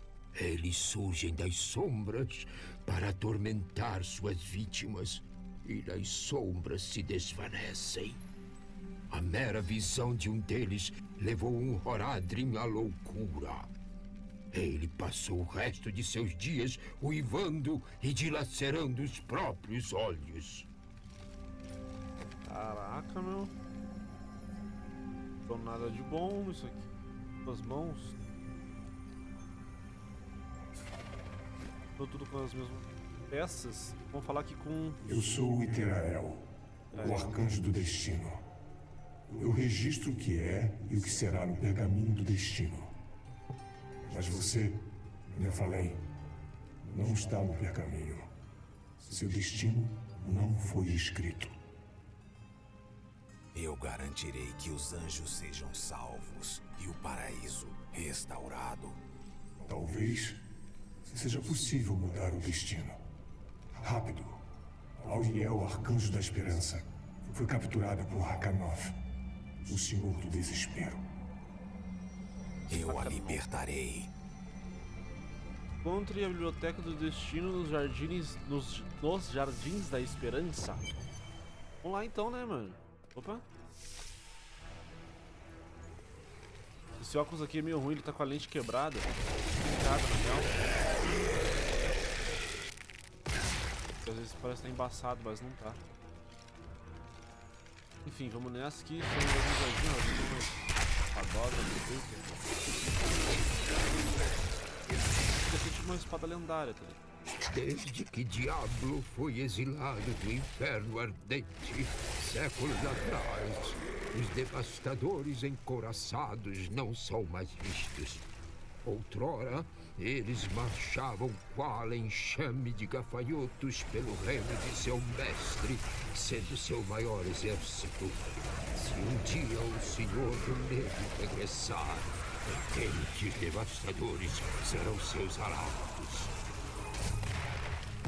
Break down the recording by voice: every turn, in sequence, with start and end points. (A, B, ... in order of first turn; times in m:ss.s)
0:00.3-0:08.2 A
0:09.1-0:13.7 A
0:14.5-0:20.7 A
0:22.4-0:23.5 B
0:25.5-0:26.9 B
0:27.4-0:28.2 B
0:32.0-0:35.0 B
0:35.0-0:36.4 C
0:36.9-0:37.4 B
0:37.0-0:38.4 C
0:39.3-0:42.9 C
0:44.1-0:44.7 C
0:45.3-0:46.0 C
0:46.8-0:48.3 C
0:49.0-0:51.5 C
0:53.5-0:59.0 D
0:59.6-1:00.4 C
1:01.1-1:03.0 C
1:03.8-1:04.4 C
1:05.0-1:08.9 C
1:09.7-1:11.0 C
1:12.7-1:14.1 D
1:12.7-1:13.4 B
1:15.8-1:20.9 B
1:21.8-1:23.4 B
1:27.0-1:30.5 B
1:34.0-1:35.8 B
1:38.0-1:40.6 B
1:41.1-1:42.2 B
1:45.5-1:47.0 B
1:47.5-1:58.2 A
1:58.8-2:16.3 A